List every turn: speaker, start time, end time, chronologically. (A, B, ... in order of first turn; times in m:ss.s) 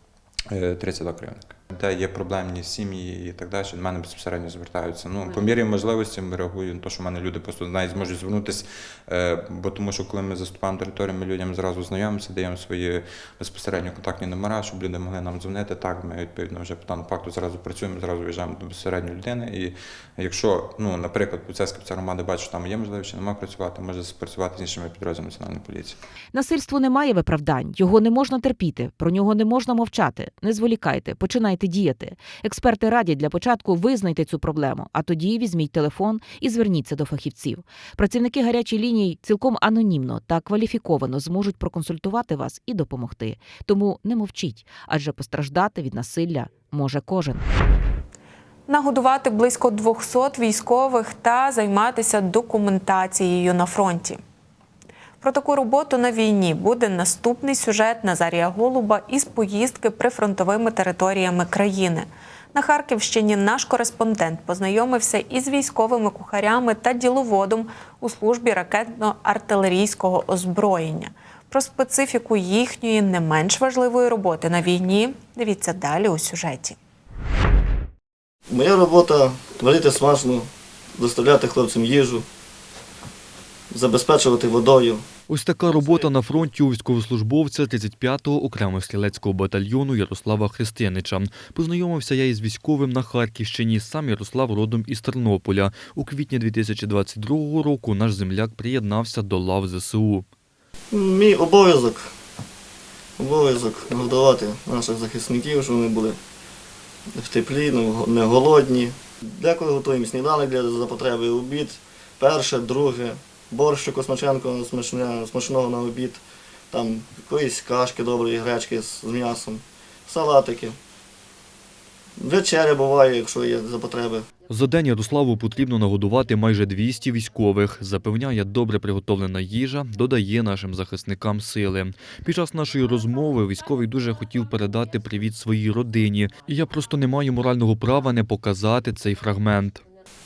0:00.5-0:26.0 A
0:26.3-0:47.4 B
0:48.7-0:54.2 C
0:55.2-1:16.8 C
1:18.5-1:22.2 D
1:23.7-1:25.0 D
1:25.3-1:40.2 E
1:40.9-1:42.1 D
1:43.2-1:46.2 D
1:47.1-1:56.2 D
1:56.7-2:00.8 D
2:02.2-2:04.2 D
2:04.5-2:19.8 E